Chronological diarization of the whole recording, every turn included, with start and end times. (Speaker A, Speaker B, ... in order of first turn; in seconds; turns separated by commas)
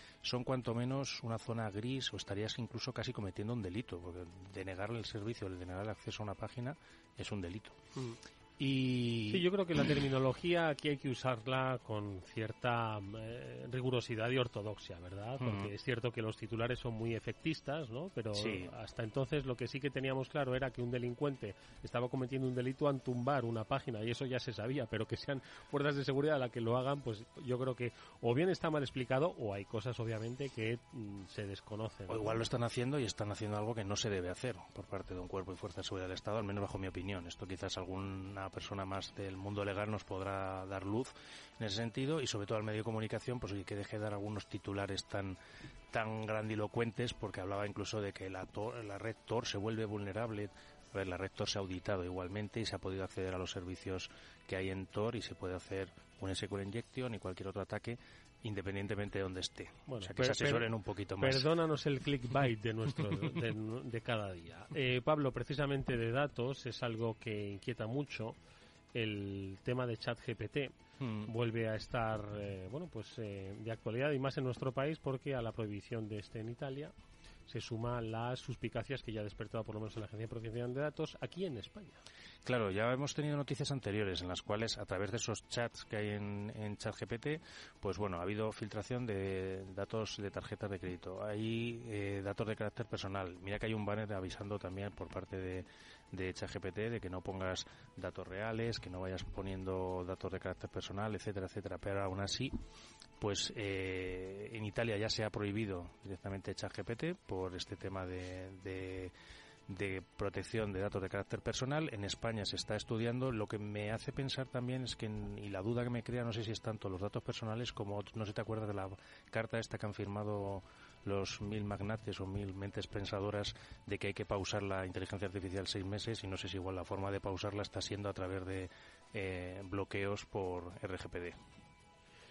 Speaker A: 0.2-7.8, Speaker A: 8.6-9.5, Speaker B: 9.3-32.4, Speaker A: 15.4-15.7, Speaker A: 18.3-18.7, Speaker A: 32.1-45.4, Speaker A: 45.9-61.5, Speaker B: 59.9-68.4, Speaker B: 68.9-76.9, Speaker A: 71.0-71.3, Speaker B: 77.5-82.0, Speaker A: 82.4-102.6, Speaker A: 103.2-109.1, Speaker A: 109.7-131.4